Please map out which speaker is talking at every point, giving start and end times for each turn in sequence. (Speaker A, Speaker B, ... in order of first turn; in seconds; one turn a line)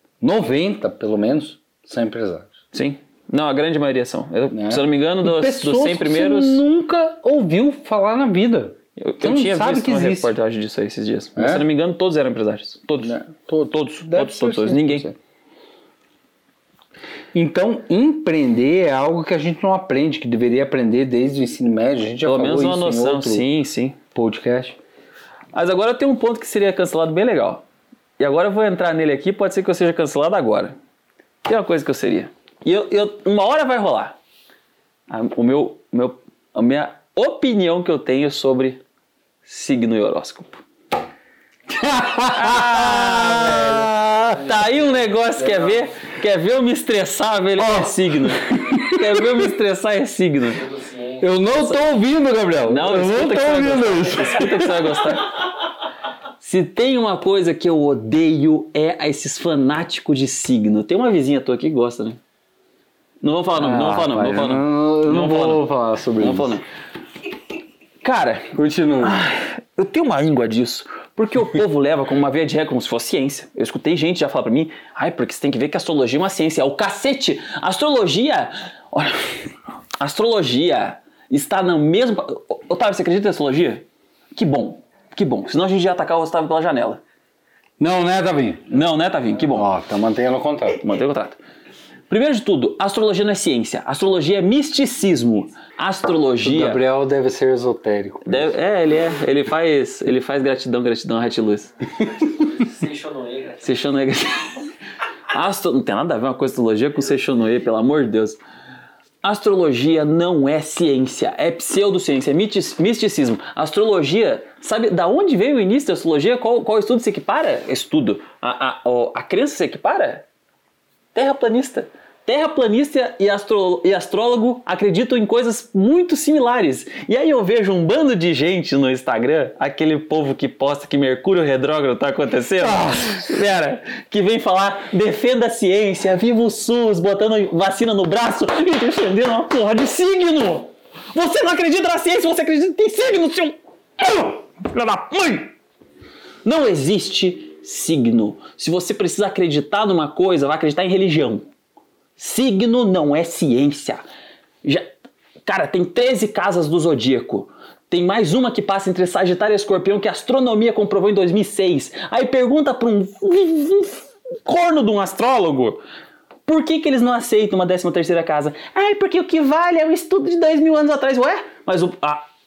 Speaker A: 0.2-2.5
Speaker B: 2.7-6.6
Speaker A: 4.5-10.3
Speaker B: 9.0-15.1
Speaker A: 11.3-11.6
Speaker A: 13.0-15.2
Speaker A: 17.3-23.4
Speaker B: 22.2-24.0
Speaker A: 24.1-24.8
Speaker B: 25.5-27.6
Speaker B: 28.2-30.7
Speaker B: 31.4-34.2
Speaker B: 35.1-38.8
Speaker B: 39.4-40.6
Speaker A: 41.7-44.4
Speaker B: 42.2-50.6
Speaker A: 47.6-49.5
Speaker C: 50.6-51.2
Speaker A: 51.2-54.9
Speaker B: 51.5-51.8
Speaker B: 52.6-55.4
Speaker B: 56.4-62.2
Speaker B: 63.2-65.7
Speaker A: 63.5-66.5
Speaker B: 66.2-66.6
Speaker B: 68.0-79.4
Speaker A: 68.5-69.3
Speaker B: 80.0-87.0
Speaker A: 87.8-88.7
Speaker B: 88.7-89.7
Speaker A: 89.5-90.8
Speaker B: 90.8-91.4
Speaker B: 92.1-96.8
Speaker A: 96.4-98.5
Speaker B: 98.2-101.7
Speaker C: 102.3-103.6
Speaker B: 103.6-104.6
Speaker B: 105.3-108.4
Speaker B: 109.2-120.2
Speaker B: 121.1-145.5
Speaker A: 132.6-133.2
Speaker B: 146.4-151.4
Speaker B: 152.2-154.0
Speaker B: 154.6-154.9
Speaker B: 155.4-165.8
Speaker B: 166.5-172.3